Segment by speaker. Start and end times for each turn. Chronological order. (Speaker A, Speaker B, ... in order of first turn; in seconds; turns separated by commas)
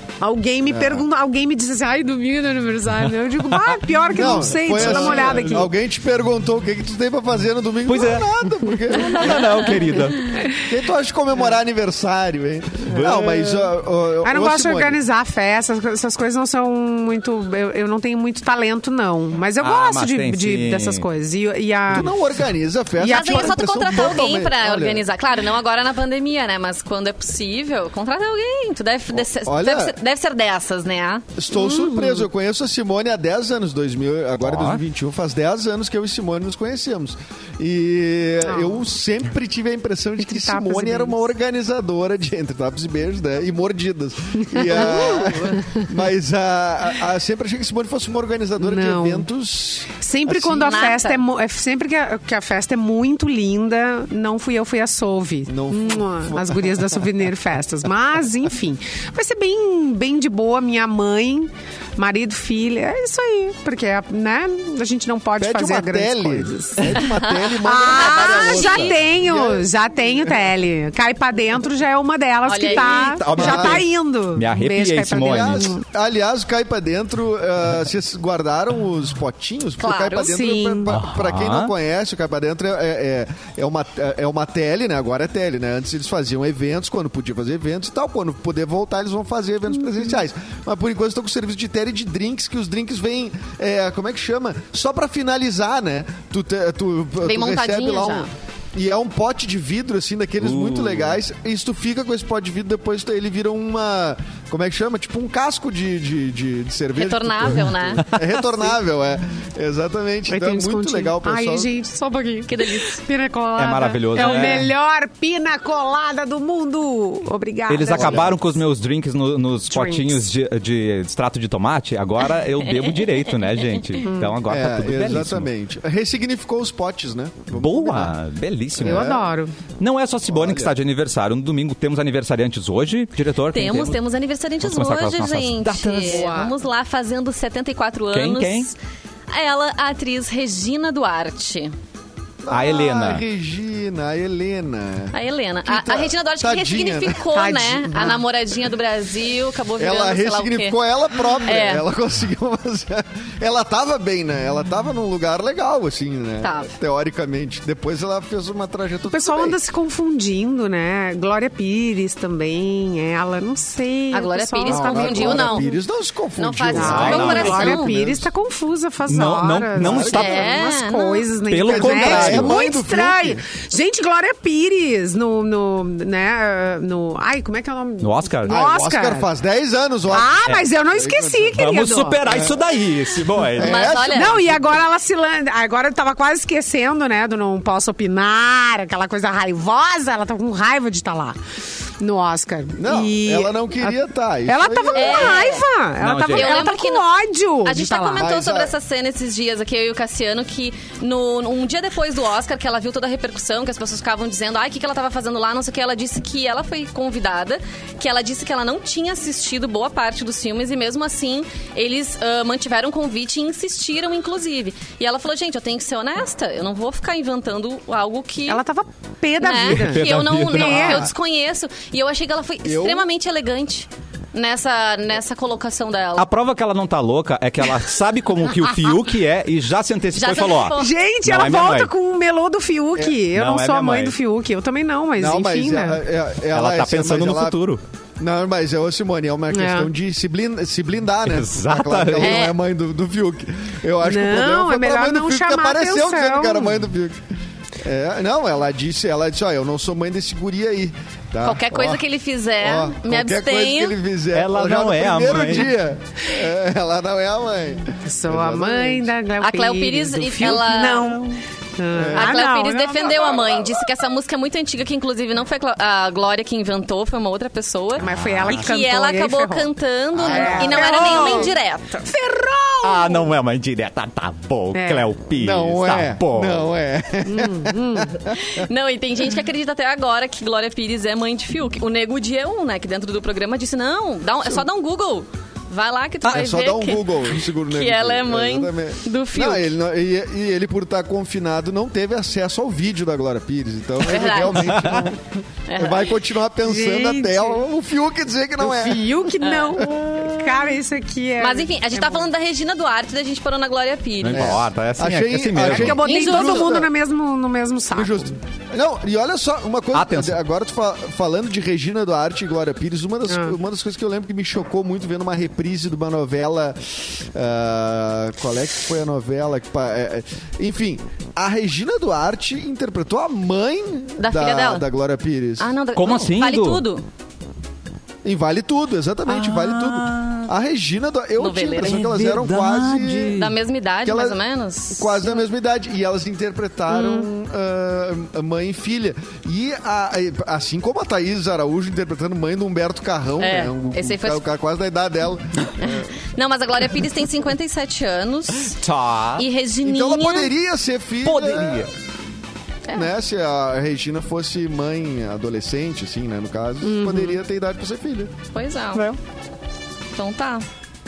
Speaker A: 0.2-5.7, Speaker B: 0.7-1.0, Speaker B: 4.1-9.7, Speaker C: 4.6-5.7, Speaker C: 7.9-8.3, Speaker C: 8.8-10.3, Speaker B: 10.5-15.0, Speaker A: 12.9-13.5, Speaker C: 13.0-13.5, Speaker A: 14.2-22.1, Speaker C: 19.6-21.0, Speaker B: 21.9-25.1, Speaker A: 23.0-23.9, Speaker D: 23.0-31.3, Speaker B: 29.1-30.0, Speaker B: 31.4-50.9, Speaker A: 31.5-32.2, Speaker C: 34.4-34.8, Speaker A: 38.4-38.8, Speaker A: 40.2-41.2, Speaker A: 44.5-45.3, Speaker D: 44.6-45.6, Speaker A: 48.6-49.3, Speaker A: 50.0-67.0, Speaker D: 50.6-51.2, Speaker B: 55.5-56.9, Speaker B: 65.4-69.7, Speaker D: 67.0-68.9, Speaker A: 67.6-75.8, Speaker B: 70.2-70.5, Speaker D: 72.4-73.3, Speaker C: 72.8-75.7, Speaker B: 73.3-73.8, Speaker B: 75.1-111.7, Speaker D: 79.8-80.3, Speaker A: 80.2-80.9, Speaker C: 80.9-81.7, Speaker D: 97.2-98.3, Speaker C: 100.4-101.2, Speaker D: 107.0-108.1, Speaker A: 110.3-118.4, Speaker D: 112.5-113.0, Speaker C: 113.6-114.7, Speaker C: 117.7-125.5, Speaker B: 117.9-118.4, Speaker A: 119.7-120.2, Speaker D: 122.7-123.1, Speaker A: 124.0-124.4, Speaker B: 124.4-128.2, Speaker C: 127.5-129.2, Speaker B: 128.8-129.2, Speaker A: 128.8-129.5, Speaker C: 129.8-134.0, Speaker B: 130.3-130.7, Speaker D: 133.5-138.8, Speaker C: 134.6-136.3, Speaker A: 135.9-136.5, Speaker C: 138.1-138.7, Speaker D: 139.3-141.7, Speaker B: 142.4-147.2, Speaker C: 142.5-143.2, Speaker D: 145.1-151.8, Speaker A: 147.3-148.2, Speaker B: 149.8-159.6, Speaker D: 156.4-156.7, Speaker A: 159.1-165.7, Speaker D: 164.1-165.7, Speaker B: 164.6-168.3, Speaker D: 166.4-167.9, Speaker A: 166.7-179.3, Speaker C: 166.8-167.7, Speaker C: 169.1-170.5, Speaker B: 169.7-170.5, Speaker D: 170.1-171.3, Speaker C: 171.5-172.6, Speaker B: 171.6-173.4, Speaker C: 178.0-178.6, Speaker B: 178.5-182.6, Speaker A: 180.1-182.2, Speaker C: 181.6-183.9, Speaker B: 183.4-184.8, Speaker D: 183.6-184.3, Speaker A: 184.1-191.4, Speaker A: 192.0-198.3, Speaker B: 192.8-195.5, Speaker D: 194.9-195.7, Speaker C: 196.0-196.6, Speaker D: 196.3-197.1, Speaker D: 197.6-218.6, Speaker B: 198.2-198.7, Speaker A: 218.5-221.1, Speaker D: 219.4-226.3, Speaker C: 219.6-221.1, Speaker B: 222.6-223.1, Speaker C: 226.2-231.9, Speaker D: 230.1-230.9, Speaker A: 230.7-236.0, Speaker C: 233.2-234.2, Speaker B: 235.2-237.6, Speaker C: 236.5-237.8, Speaker B: 238.2-252.0, Speaker A: 239.5-239.9, Speaker C: 241.2-242.5, Speaker D: 242.2-242.6, Speaker A: 244.0-246.8, Speaker D: 251.4-254.0, Speaker B: 252.6-259.1, Speaker C: 254.3-255.7, Speaker A: 258.0-263.4, Speaker D: 259.4-261.2, Speaker B: 261.9-262.4, Speaker D: 262.1-272.1, Speaker B: 263.1-263.6, Speaker C: 268.0-268.6, Speaker A: 268.0-269.7, Speaker B: 270.1-271.0, Speaker A: 270.2-273.3, Speaker C: 272.8-276.7, Speaker A: 274.7-275.1, Speaker B: 275.4-278.4, Speaker A: 277.2-278.1, Speaker D: 278.3-289.7, Speaker B: 286.3-299.1, Speaker D: 294.0-294.9, Speaker C: 294.5-295.1, Speaker D: 295.7-296.1, Speaker A: 296.6-297.6, Speaker A: 298.6-302.3, Speaker D: 299.4-299.9, Speaker D: 301.4-304.7, Speaker C: 304.2-306.0, Speaker B: 304.3-306.9, Speaker A: 305.6-308.4, Speaker D: 306.0-306.8, Speaker B: 307.9-325.7, Speaker C: 309.9-310.4, Speaker A: 313.3-313.6, Speaker D: 324.2-324.8, Speaker D: 325.6-327.0, Speaker C: 325.9-326.8, Speaker B: 328.2-333.4, Speaker C: 329.3-330.5, Speaker D: 331.4-332.1, Speaker C: 331.8-333.5, Speaker D: 333.3-335.4, Speaker B: 334.0-334.4, Speaker B: 334.9-346.1, Speaker D: 343.4-344.4, Speaker D: 345.8-348.8, Speaker C: 348.7-349.4, Speaker D: 349.4-350.5, Speaker B: 349.8-351.9, Speaker C: 351.2-351.9, Speaker B: 352.9-358.3, Speaker A: 356.8-357.4, Speaker D: 358.5-359.1, Speaker D: 360.1-360.6